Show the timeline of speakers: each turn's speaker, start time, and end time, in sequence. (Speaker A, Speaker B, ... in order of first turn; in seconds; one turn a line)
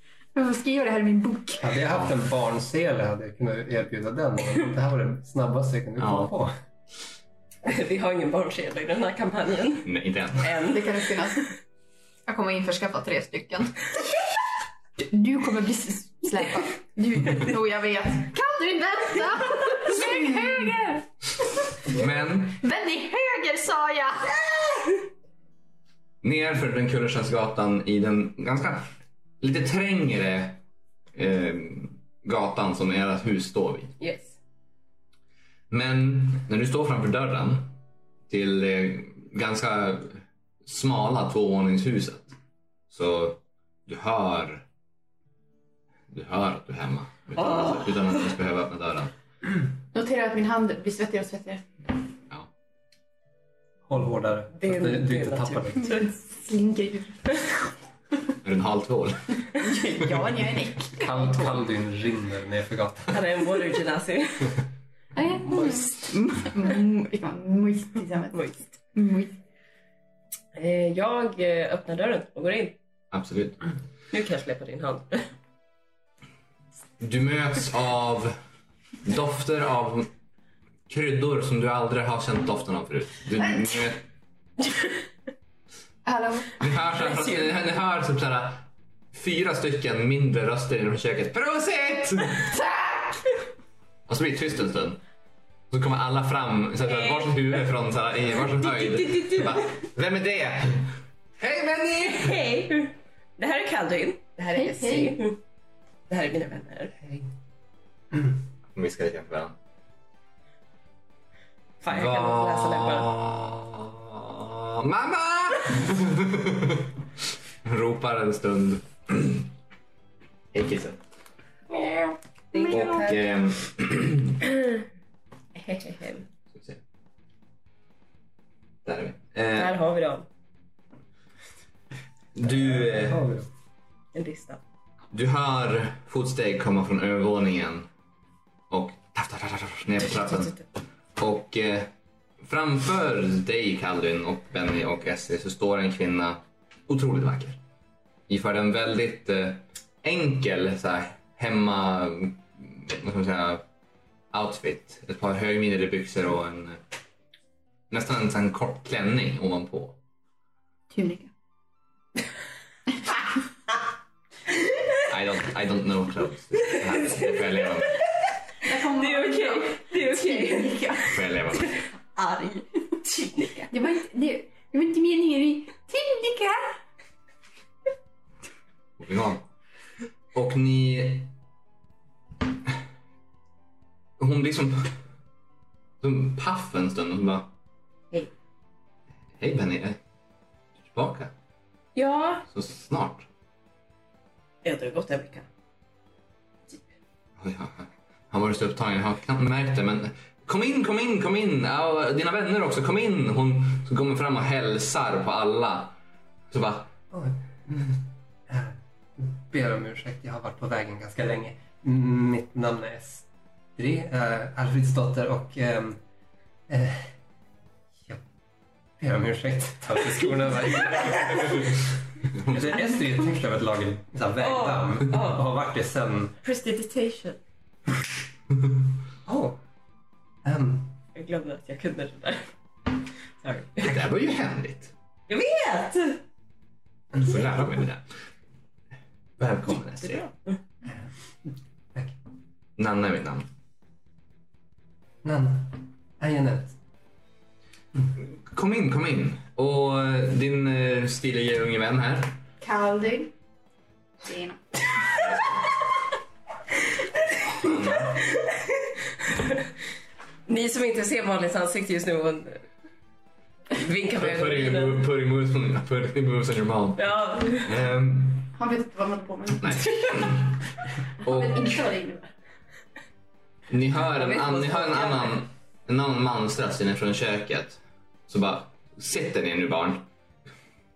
Speaker A: 0.3-1.8
Speaker B: 1.6-6.5
Speaker C: 6.0-6.3
Speaker D: 7.6-9.9
Speaker C: 9.8-10.6
Speaker D: 10.4-11.2
Speaker A: 10.7-11.5
Speaker E: 12.3-13.8
Speaker A: 15.0-18.4
Speaker E: 18.4-20.0
Speaker A: 19.0-21.1
Speaker C: 21.9-22.6
Speaker E: 22.6-24.4
Speaker C: 26.2-28.9
Speaker C: 29.4-30.6
Speaker C: 31.1-33.9
Speaker D: 34.0-34.4
Speaker C: 35.7-37.8
Speaker C: 38.3-42.3
Speaker C: 42.9-44.6
Speaker C: 46.1-49.1
Speaker D: 47.4-48.2
Speaker A: 49.9-51.7
Speaker B: 53.9-56.0
Speaker D: 54.5-56.0
Speaker A: 55.8-57.6
Speaker C: 58.4-59.5
Speaker A: 59.5-61.6
Speaker B: 61.0-63.2
Speaker D: 63.1-64.6
Speaker A: 65.2-69.4
Speaker D: 65.5-66.1
Speaker D: 68.3-68.6
Speaker D: 70.5-72.8
Speaker C: 73.1-73.6
Speaker D: 74.1-75.3
Speaker C: 77.0-78.4
Speaker C: 79.0-80.1
Speaker C: 80.9-84.0
Speaker A: 86.0-86.5
Speaker C: 86.6-92.5
Speaker A: 92.5-93.2
Speaker C: 94.1-95.0
Speaker C: 95.7-102.4
Speaker D: 98.4-99.7
Speaker D: 102.1-105.4
Speaker A: 104.5-105.2
Speaker D: 106.1-107.0
Speaker C: 108.7-109.5
Speaker D: 111.8-113.1
Speaker C: 111.8-117.0
Speaker C: 117.6-119.5
Speaker C: 120.5-121.0
Speaker D: 121.7-123.2
Speaker A: 122.5-123.0
Speaker C: 122.7-124.4
Speaker D: 125.5-126.3
Speaker C: 126.5-126.8
Speaker C: 128.8-129.8
Speaker D: 129.6-130.3
Speaker C: 132.4-133.2
Speaker B: 132.4-133.5
Speaker D: 134.1-134.6
Speaker C: 135.1-137.9
Speaker C: 138.7-140.6
Speaker C: 141.2-141.9
Speaker C: 142.4-147.6
Speaker C: 148.3-153.6
Speaker C: 154.3-156.8
Speaker C: 157.9-160.0
Speaker A: 160.9-161.3
Speaker C: 165.1-168.0
Speaker A: 168.6-171.2
Speaker D: 168.7-173.7
Speaker C: 171.1-171.8
Speaker A: 173.7-176.8
Speaker C: 179.0-179.4
Speaker C: 180.3-181.3
Speaker C: 184.2-185.0
Speaker C: 186.0-187.5
Speaker C: 189.4-190.0
Speaker C: 190.8-191.3
Speaker D: 191.9-192.4
Speaker C: 192.5-193.3
Speaker D: 194.6-195.5
Speaker C: 197.4-206.0
Speaker C: 206.5-206.9
Speaker B: 207.1-216.0
Speaker B: 216.7-217.1
Speaker B: 219.0-221.8
Speaker C: 222.4-222.7
Speaker B: 222.4-226.3
Speaker D: 224.4-225.5
Speaker D: 226.4-227.4
Speaker B: 229.2-229.6
Speaker B: 230.4-231.0
Speaker D: 231.2-232.5
Speaker D: 233.4-233.9
Speaker C: 233.8-234.9
Speaker D: 235.3-236.2
Speaker C: 237.2-238.1
Speaker C: 239.4-240.2
Speaker D: 240.0-240.6
Speaker B: 240.8-242.2
Speaker C: 242.8-243.5
Speaker B: 245.2-246.8
Speaker C: 248.5-252.4
Speaker A: 252.6-253.3
Speaker A: 254.2-254.6
Speaker C: 255.1-255.6
Speaker C: 257.5-258.3
Speaker D: 260.5-262.6
Speaker D: 263.7-265.0
Speaker C: 264.2-268.6
Speaker D: 267.0-267.7
Speaker A: 268.6-270.3
Speaker C: 269.6-270.6
Speaker C: 271.2-271.8
Speaker A: 271.2-272.3
Speaker C: 273.7-280.1
Speaker D: 274.1-275.4